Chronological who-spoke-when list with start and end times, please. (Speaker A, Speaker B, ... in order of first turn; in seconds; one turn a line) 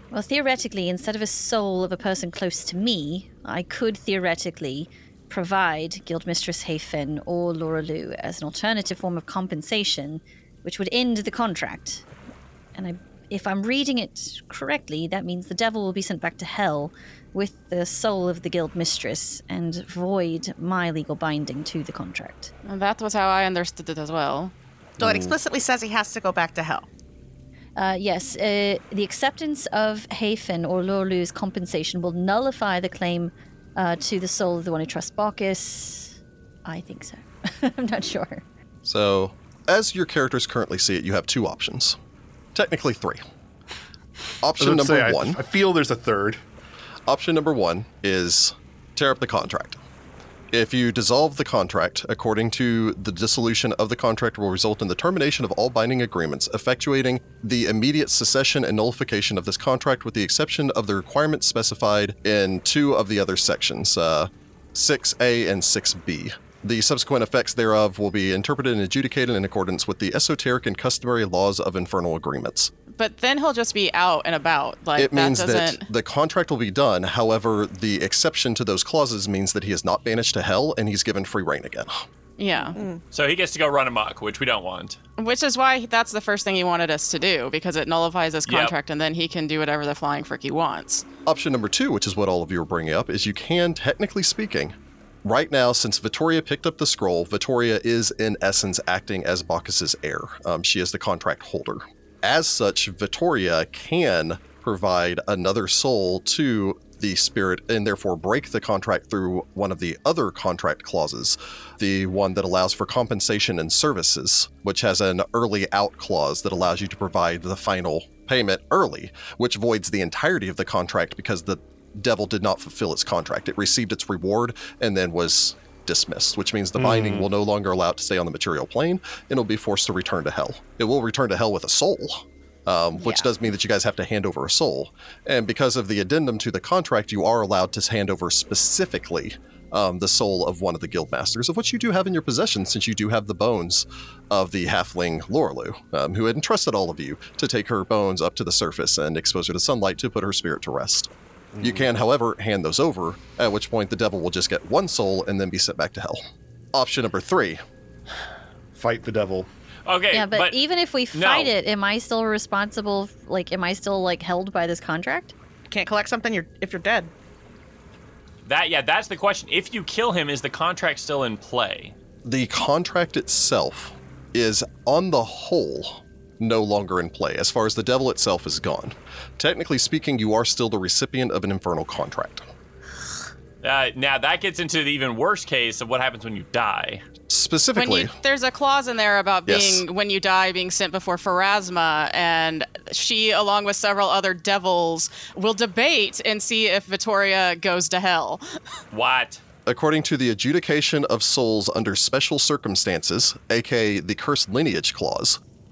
Speaker A: 0.1-12.0
Speaker A: 12.7-22.5
Speaker B: 22.6-24.5
Speaker C: 25.0-26.9
Speaker D: 25.0-25.4
Speaker A: 27.8-36.1
Speaker A: 36.6-38.4
Speaker E: 38.8-42.0
Speaker E: 42.5-43.2
Speaker E: 44.4-45.4
Speaker D: 44.6-46.4
Speaker E: 47.1-49.8
Speaker E: 50.5-72.7
Speaker B: 72.9-75.8
Speaker E: 75.0-82.0
Speaker B: 82.4-82.8
Speaker F: 83.1-85.0
Speaker B: 85.2-91.0
Speaker F: 88.5-88.7
Speaker E: 91.2-156.2
Speaker D: 126.8-127.3
Speaker D: 151.5-151.9
Speaker E: 156.7-157.6
Speaker D: 158.7-159.5
Speaker F: 159.8-160.6
Speaker A: 160.1-165.3
Speaker F: 161.1-161.5
Speaker C: 165.7-167.1
Speaker F: 168.4-171.9
Speaker E: 172.2-182.4
Speaker F: 183.6-187.0
Speaker E: 187.3-188.1
Speaker B: 187.7-198.4
Speaker E: 189.5-189.8
Speaker F: 198.9-199.4
Speaker E: 199.7-205.4